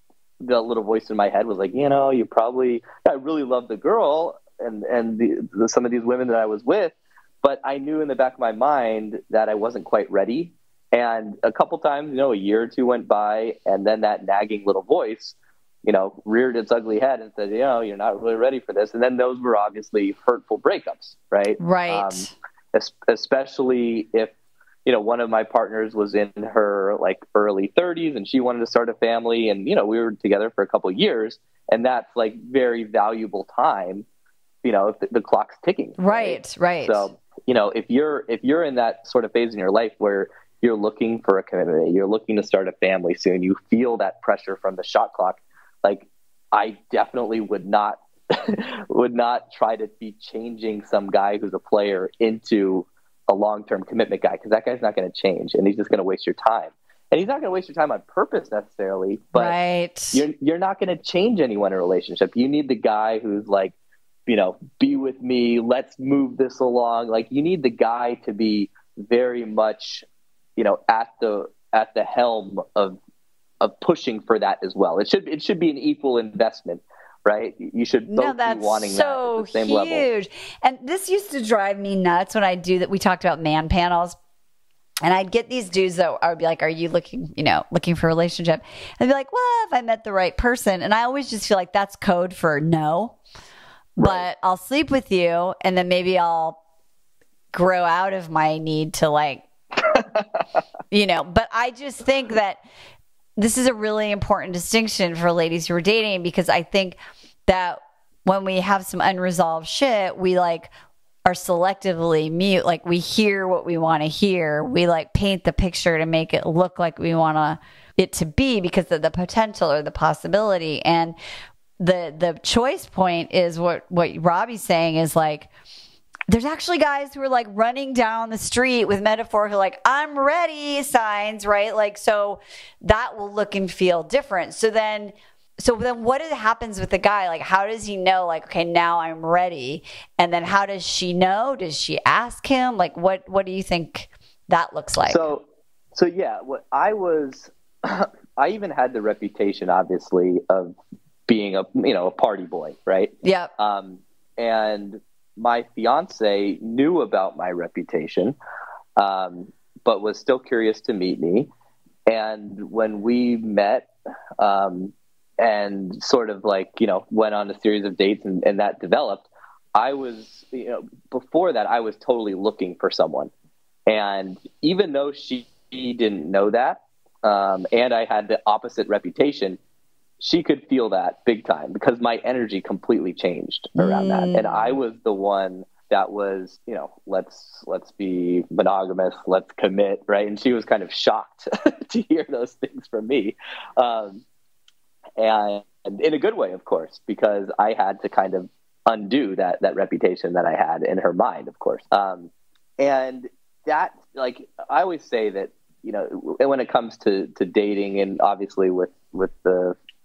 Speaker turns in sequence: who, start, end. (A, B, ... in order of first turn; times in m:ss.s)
0:00.4-0:24.3 A
0:21.6-0:22.3 B
0:24.8-0:34.0 A
0:34.6-0:59.6 A
0:36.0-0:37.1 B
0:59.3-1:00.2 B
1:00.1-1:03.7 A
1:04.3-1:10.0 A
1:10.6-1:13.0 A
1:13.6-1:20.0 A
1:18.1-1:24.2 B
1:25.0-1:33.2 B
1:34.0-1:36.6 B
1:34.0-1:34.2 A
1:37.5-1:39.4 B
1:39.9-1:40.2 A
1:40.9-1:42.6 B
1:43.4-1:50.7 B
1:51.2-2:01.1 B
2:01.8-2:05.5 B
2:06.3-2:25.3 B
2:25.0-2:38.4 A
2:33.2-2:33.5 B
2:39.0-2:41.5 A
2:42.1-2:53.3 A
2:53.9-2:59.6 A
3:00.2-3:14.2 A
3:03.8-3:04.8 B
3:15.2-3:29.8 A